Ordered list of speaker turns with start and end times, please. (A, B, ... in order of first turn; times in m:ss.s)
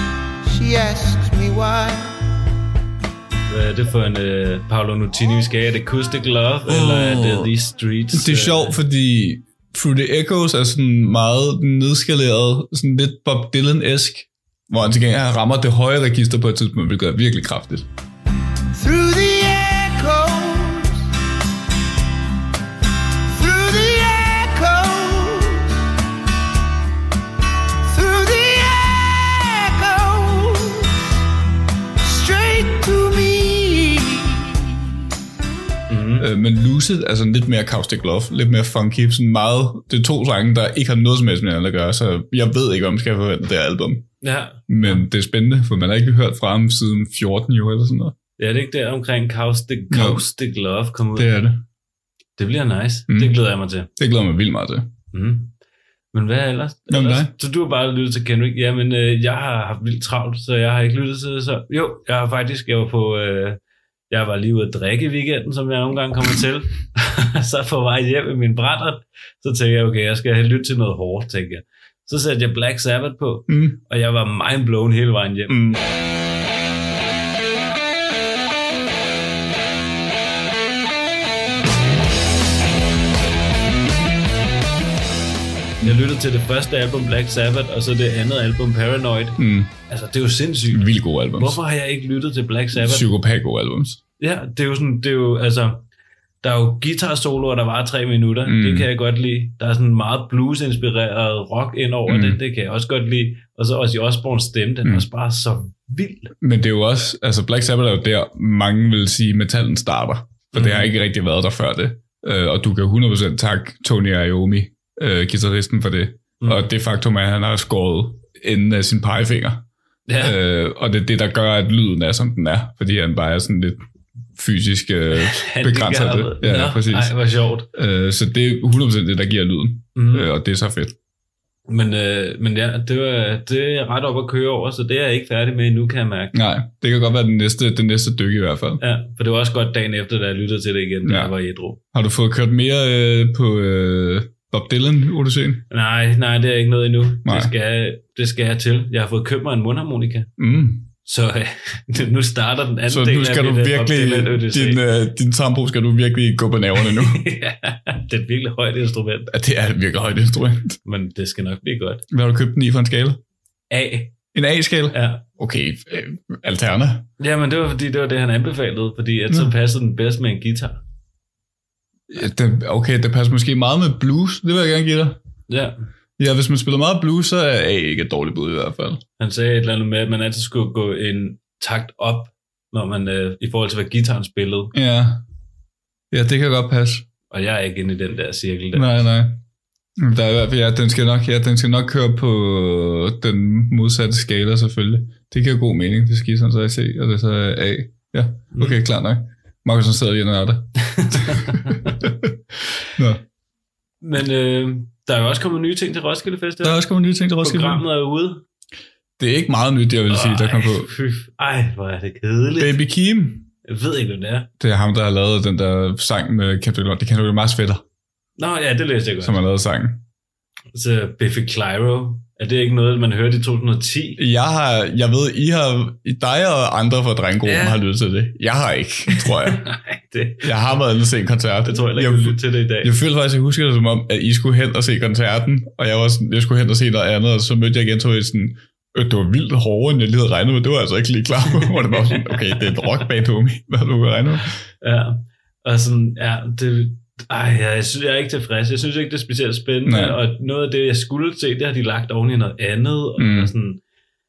0:00.4-0:02.2 A
0:03.5-0:08.8 B
0:06.7-0:07.5 C
0:08.1-0:17.9 C
0:18.7-0:21.0 A
0:23.3-0:25.7 A
0:27.8-0:30.9 A
0:32.0-0:34.4 A
0:35.9-0:36.3 B
0:36.2-0:44.1 C
0:44.2-0:45.0 B
0:44.7-0:48.1 C
0:48.4-0:51.3 B
0:49.9-0:50.2 C
0:51.2-0:51.6 C
0:52.4-0:53.9 B
0:53.1-0:53.4 C
0:54.0-0:54.9 C
0:55.1-0:55.5 B
0:56.1-1:15.6 B
0:56.9-0:57.3 C
1:13.5-1:13.8 C
1:15.5-1:15.8 C
1:25.8-1:33.1 B
1:29.4-1:29.7 C
1:30.7-1:31.6 C
1:32.7-1:34.0 C
1:34.2-1:35.8 B
1:36.4-1:46.3 B
1:38.4-1:38.9 C
1:42.1-1:42.4 C
1:46.4-1:59.7 C
1:50.5-1:50.9 B
1:56.4-1:56.7 B
2:00.1-2:00.4 B
2:00.2-2:03.8 C
2:04.4-2:07.2 C
2:05.1-2:07.7 B
2:07.7-2:10.9 C
2:09.9-2:10.3 B
2:11.7-2:16.4 B
2:16.3-2:18.8 C
2:18.8-2:21.8 B
2:21.0-2:21.3 C
2:21.9-2:25.6 C
2:25.7-2:30.3 B
2:27.2-2:27.5 C
2:30.4-2:30.9 C
2:31.0-2:34.8 B
2:32.9-2:37.2 C
2:36.8-2:39.3 B
2:39.3-2:40.8 C
2:40.8-2:42.0 B
2:42.1-2:43.2 C
2:43.7-2:44.3 B
2:44.3-2:47.1 C
2:44.9-2:45.3 B
2:47.2-2:50.8 B
2:52.1-2:55.2 C
2:55.5-2:55.8 B
2:56.2-2:59.0 C
2:59.2-3:04.7 B
3:04.7-3:05.2 C
3:06.1-3:07.1 C
3:07.3-3:08.9 B
3:08.7-3:09.4 C
3:10.0-3:22.4 C
3:18.5-3:18.8 B
3:20.8-3:21.8 B
3:23.0-3:23.2 C
3:24.0-3:28.4 B
3:26.6-3:27.8 C
3:29.2-3:30.9 C
3:30.1-3:32.8 B
3:32.6-3:33.5 C
3:33.6-3:34.5 B
3:34.6-3:37.8 C
3:38.4-3:39.4 B
3:39.2-3:40.0 C
3:40.7-3:44.2 B
3:44.2-3:49.6 C
3:47.4-3:47.8 B
3:49.1-3:50.5 B
3:50.4-4:04.6 C
3:51.6-3:52.9 B
4:01.5-4:03.1 B
4:04.8-4:13.8 B
4:09.9-4:10.2 C
4:13.2-4:13.5 C